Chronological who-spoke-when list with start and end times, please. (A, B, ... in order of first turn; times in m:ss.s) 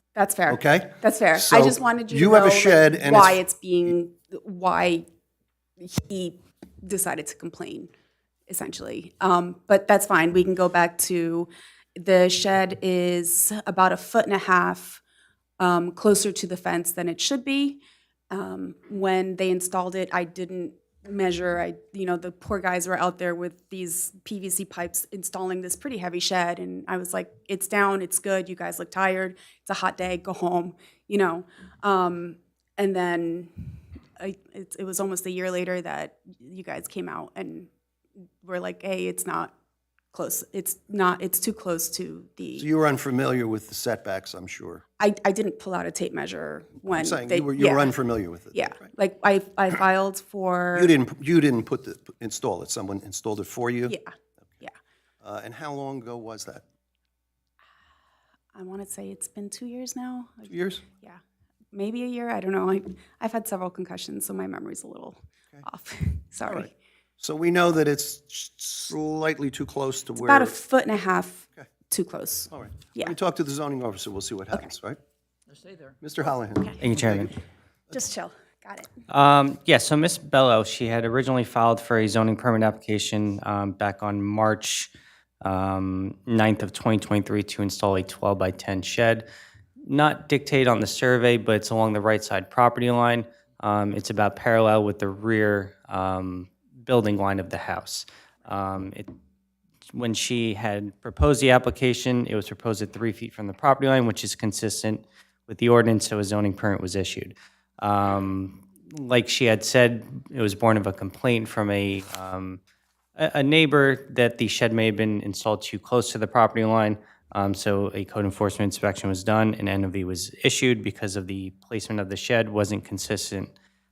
0:00.1-0:05.0 A
0:00.5-0:03.4 B
0:05.8-0:07.9 A
0:08.5-0:15.0 A
0:15.6-0:37.7 A
0:38.4-0:39.5 A
0:40.1-0:42.7 A
0:42.6-0:44.8 B
0:45.0-0:48.0 A
0:46.9-0:48.8 B
0:48.5-0:50.9 A
0:50.7-0:54.0 B
0:53.8-0:54.7 A
0:55.2-0:56.6 B
0:58.5-1:01.2 A
1:00.5-1:00.8 B
1:01.7-1:06.8 A
1:06.4-1:10.5 B
1:10.2-1:13.2 A
1:12.5-1:15.0 B
1:16.0-1:17.4 B
1:16.8-1:17.3 C
1:17.9-1:18.9 A
1:19.1-1:24.9 C
1:25.4-1:29.3 C
1:29.8-1:39.1 C
1:39.9-1:52.6 C
1:53.2-2:03.5 C